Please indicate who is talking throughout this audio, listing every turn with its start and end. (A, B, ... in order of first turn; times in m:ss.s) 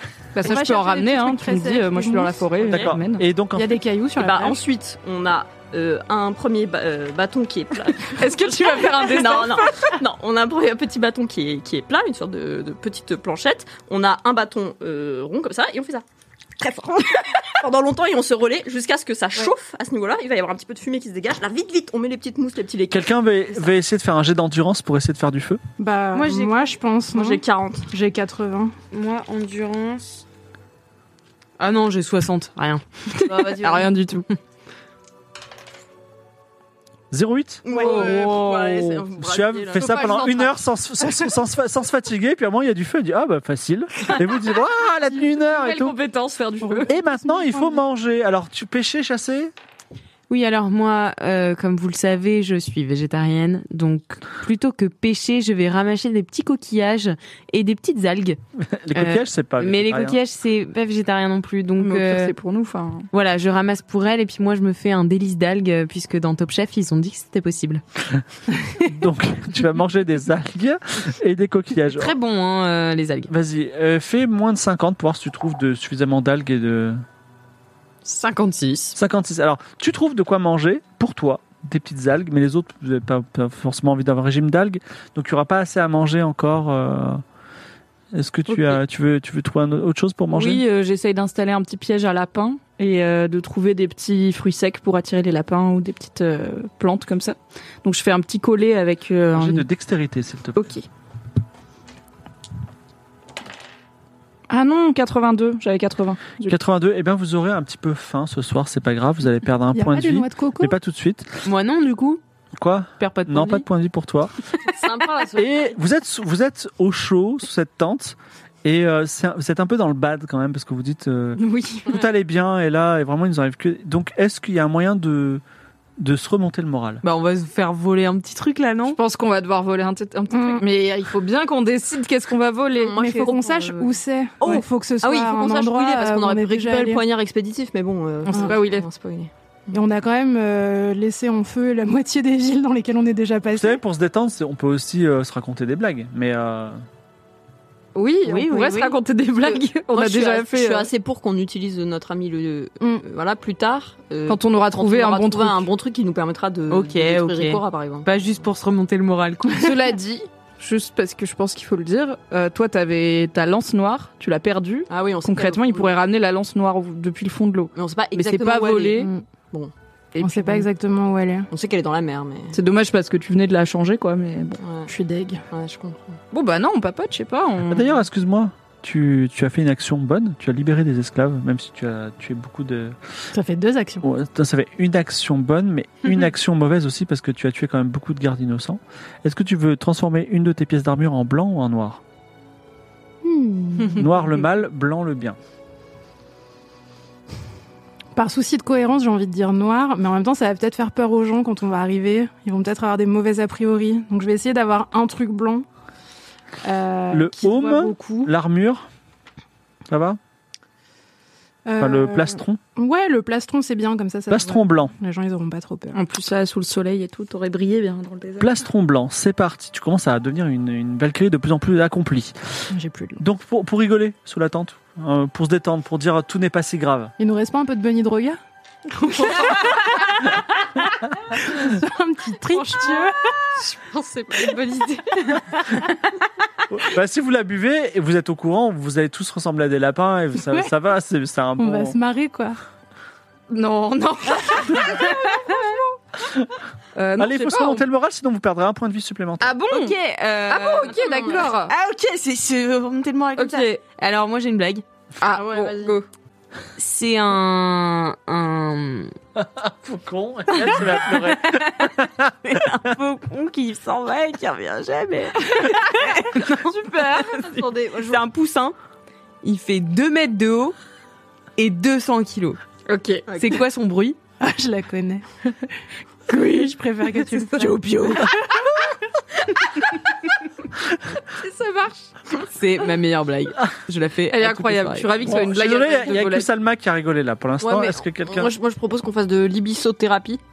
0:00.3-0:03.2 A
0:00.4-0:02.8 B
0:02.7-0:03.8 C
0:03.5-0:04.6 B
0:04.2-0:16.0 D
0:08.2-0:09.7 A
0:16.6-0:23.7 D
0:22.9-0:25.6 C
0:25.8-0:28.7 B
0:26.1-0:26.7 E
0:27.1-0:27.9 D
0:28.9-0:30.2 E
0:31.6-0:32.8 E
0:33.2-0:34.2 A
0:33.3-0:33.9 D
0:37.1-0:46.0 C
0:37.6-0:40.6 D
0:37.7-0:38.7 A
0:37.7-0:38.0 B
0:45.6-0:46.8 A
0:46.6-0:47.8 B
0:46.9-0:49.5 C
0:50.3-0:58.4 E
0:58.6-1:00.2 C
0:58.9-1:02.3 E
1:01.8-1:03.1 A
1:03.1-1:07.8 E
1:08.8-1:12.1 C
1:11.9-1:13.3 E
1:13.3-1:17.0 C
1:18.0-1:18.9 E
1:18.9-1:27.2 C
1:28.1-1:30.6 C
1:30.3-1:39.6 A
1:39.3-1:40.7 C
1:40.6-1:40.8 A
1:44.5-1:46.5 A
1:46.4-1:51.4 C
1:49.7-1:50.8 B
1:51.4-1:52.2 E
1:52.6-1:54.3 C
1:53.0-1:53.6 E
1:54.6-1:55.8 D
1:55.3-2:05.4 C
2:01.4-2:01.8 A
2:06.0-2:07.0 C
2:07.0-2:09.0 E
2:08.9-2:13.4 A
2:10.3-2:10.6 B
2:12.8-2:19.8 D
2:13.0-2:17.0 B
2:18.2-2:18.8 A
2:18.3-2:18.6 B
2:19.7-2:23.8 B
2:23.5-2:26.8 C
2:27.9-2:30.9 A
2:28.2-2:29.0 E
2:29.4-2:38.1 D
2:34.3-2:35.7 A
2:36.7-2:39.7 E
2:39.5-2:49.1 A
2:44.9-2:46.0 D
2:47.7-2:49.7 D
2:50.1-2:50.7 A
2:50.2-2:51.5 B
2:51.5-2:52.6 D
2:52.5-2:54.6 A
2:54.6-2:54.9 D
2:54.9-2:55.4 B
2:55.5-2:56.2 D
2:56.3-2:58.0 A
2:57.7-3:03.0 C
3:03.3-3:04.0 B
3:04.0-3:12.0 C
3:13.2-3:14.1 B
3:13.9-3:15.4 C
3:18.1-3:25.6 B
3:26.6-3:28.3 B
3:27.1-3:28.9 C
3:29.9-3:30.2 C
3:31.6-3:36.0 B
3:31.8-3:32.6 C
3:34.3-3:34.9 C
3:35.9-3:38.5 A
3:38.4-3:47.1 C
3:42.7-3:43.2 B
3:47.2-3:48.4 B
3:48.9-3:50.4 B
3:51.3-3:53.2 B
3:52.5-3:55.7 D
3:56.7-4:02.0 C
4:00.4-4:00.7 B
4:01.6-4:02.6 B
4:03.5-4:06.0 A
4:06.9-4:07.8 A
4:07.2-4:09.6 C
4:09.4-4:11.7 A
4:09.7-4:10.9 E
4:10.8-4:11.5 D
4:11.6-4:14.8 E
4:13.4-4:13.8 A
4:15.2-4:16.0 A
4:15.3-4:16.0 D
4:16.8-4:19.1 E
4:19.4-4:22.3 C
4:20.6-4:27.2 E
4:26.4-4:27.6 A
4:27.2-4:28.3 D
4:28.0-4:28.7 E
4:29.4-4:30.8 E
4:31.6-4:32.6 E
4:32.9-4:33.2 A
4:33.3-4:33.6 D
4:33.3-4:34.2 E
4:34.4-4:35.2 B
4:36.3-4:38.6 B
4:36.3-4:36.6 E
4:37.1-4:38.3 E
4:41.4-4:42.0 A
4:42.5-4:45.2 E
4:44.3-4:46.5 A
4:45.2-4:48.5 C
4:47.6-4:50.4 D